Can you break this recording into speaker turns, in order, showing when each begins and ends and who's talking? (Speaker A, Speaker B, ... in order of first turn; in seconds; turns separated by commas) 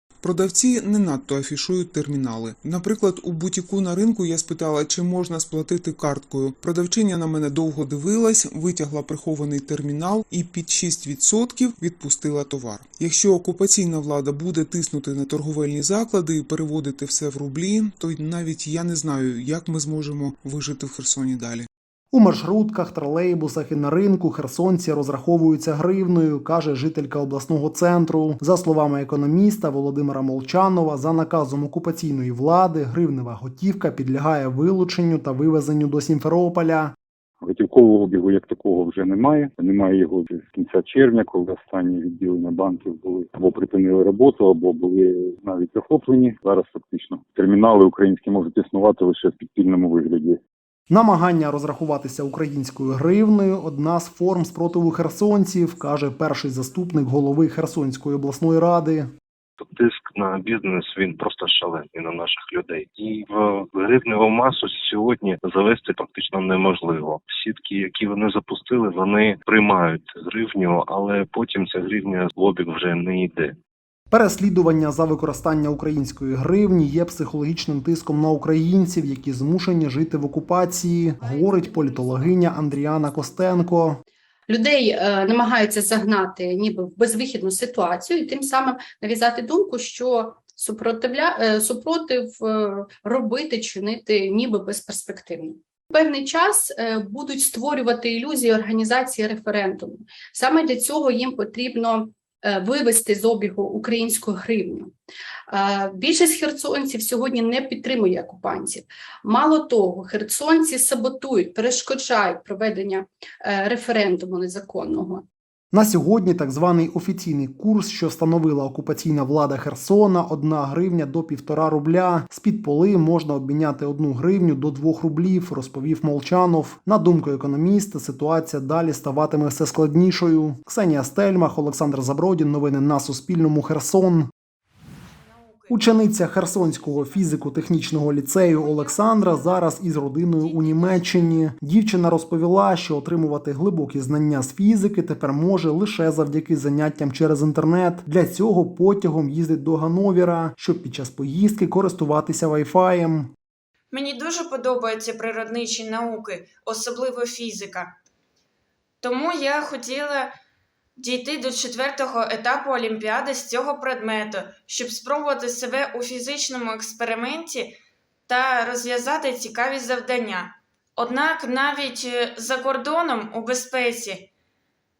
Speaker A: 0.2-21.7, Speaker B: 22.1-36.9, Speaker C: 37.4-50.4, Speaker B: 50.9-59.1, Speaker D: 59.6-73.5, Speaker B: 74.1-84.0, Speaker E: 84.5-104.9, Speaker E: 105.5-115.2, Speaker B: 115.7-134.3, Speaker F: 135.2-137.5, Speaker B: 135.7-153.3, Speaker F: 138.5-139.8, Speaker F: 140.4-141.5, Speaker F: 153.9-157.9, Speaker F: 159.0-160.3, Speaker F: 161.0-167.7, Speaker F: 168.3-174.3